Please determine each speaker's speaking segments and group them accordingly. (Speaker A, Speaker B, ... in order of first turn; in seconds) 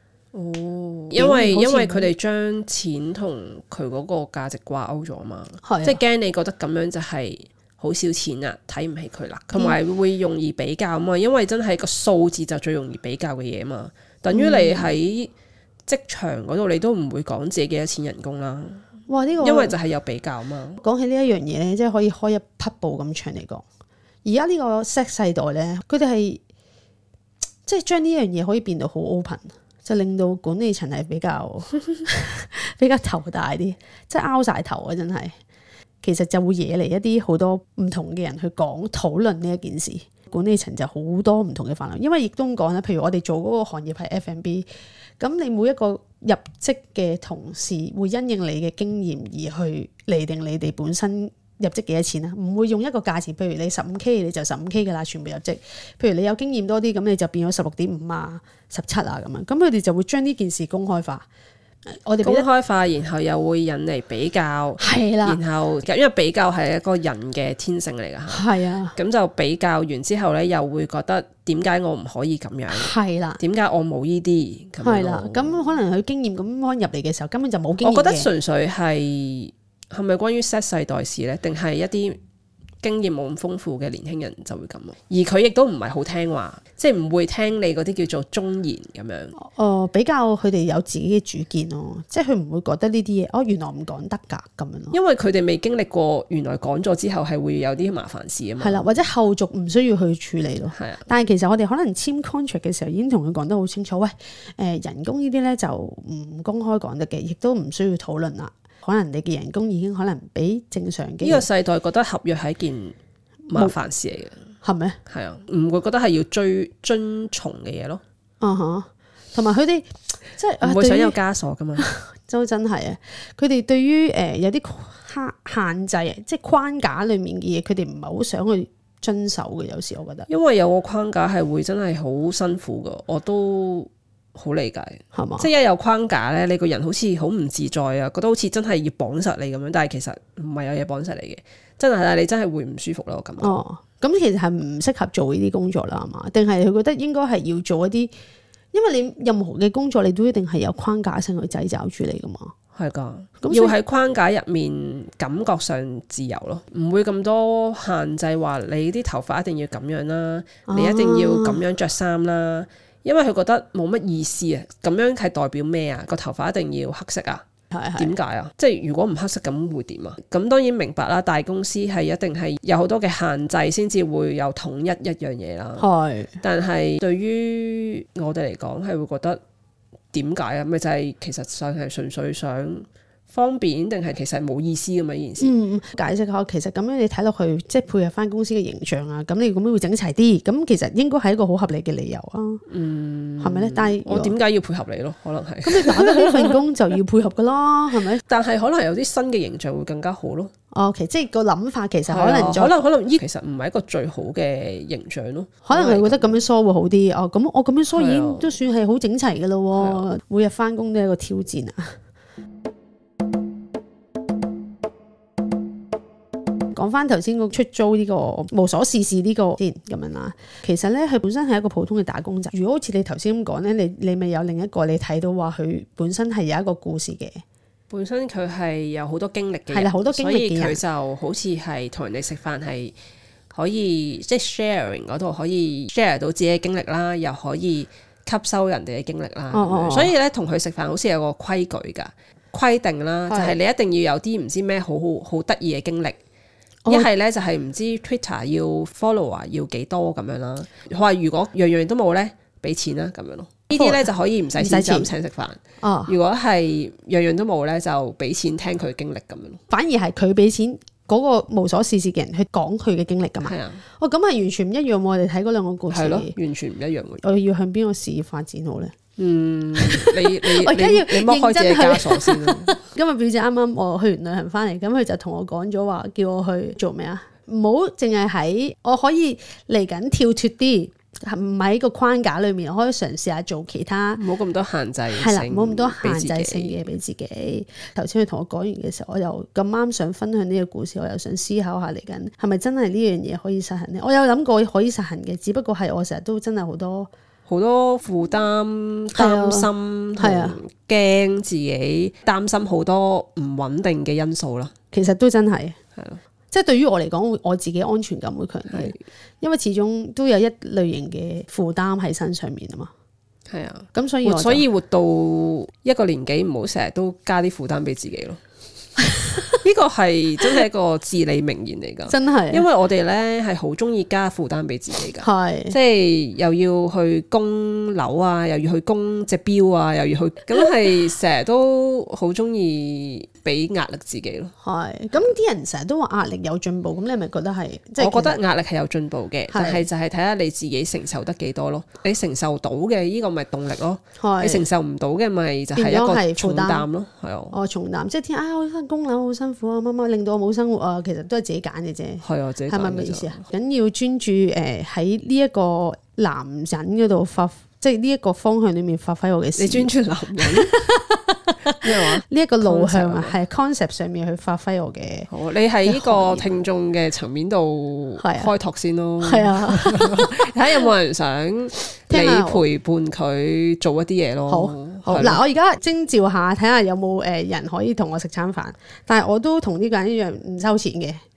Speaker A: 0.3-15.3, 15.9-18.8, 19.4-20.8, 62.2-75.8, 77.8-82.2, 82.8-89.3, 94.9-98.9, 100.7-101.0, 111.2-112.9, 113.5-114.4, 115.1-118.0, 120.6-121.9, 130.3-143.6, 152.7-167.4, 168.0-175.9, 176.4-179.4, 180.1-185.5, 192.7-196.6, 198.2-200.5, 202.1-206.4, 207.9-208.5, 209.7-210.1, 227.9-232.9, 233.5-246.2, 246.9-259.6, 263.4-263.8, 265.9-267.2, 269.2-272.8, 284.1-286.8, 297.5-304.7, 305.9-306.2, 308.7-309.0, 313.5-318.4, 319.4-334.5, 338.0-347.5, 352.2-353.4, 359.6-360.8, 361.8-363.4, 365.3-375.4
Speaker B: 1.1-2.1, 5.6-6.0, 14.3-14.9, 19.1-19.8, 20.8-23.6, 24.2-26.4, 27.6-35.3, 36.0-44.6, 45.2-61.3, 61.9-62.5, 64.8-65.4, 68.3-69.0, 72.7-73.4, 74.8-78.3, 89.3-95.0, 98.6-111.5, 114.6-115.0, 118.4-121.2, 121.8-130.3, 135.1-135.5, 143.4-148.1, 148.7-152.5, 153.4-153.8, 160.7-161.6, 167.7-168.1, 175.8-176.4, 185.4-192.6, 193.4-194.4, 195.6-198.2, 200.7-202.8, 205.6-212.0, 216.7-227.4, 229.7-230.8, 239.5-240.1, 243.3-243.6, 246.8-247.1, 253.7-255.1, 255.8-256.1, 259.7-266.3, 267.2-268.9, 269.8-284.2, 285.1-297.1, 299.1-300.6, 304.9-305.8, 306.5-312.9, 313.9-314.6, 322.1-322.7, 325.2-325.8, 334.6-338.4, 339.5-339.9, 344.2-344.7, 345.7-346.9, 347.5-359.9, 360.4-365.3, 365.8-366.6, 368.2-368.5, 369.2-370.9, 372.1-372.6, 374.5-381.2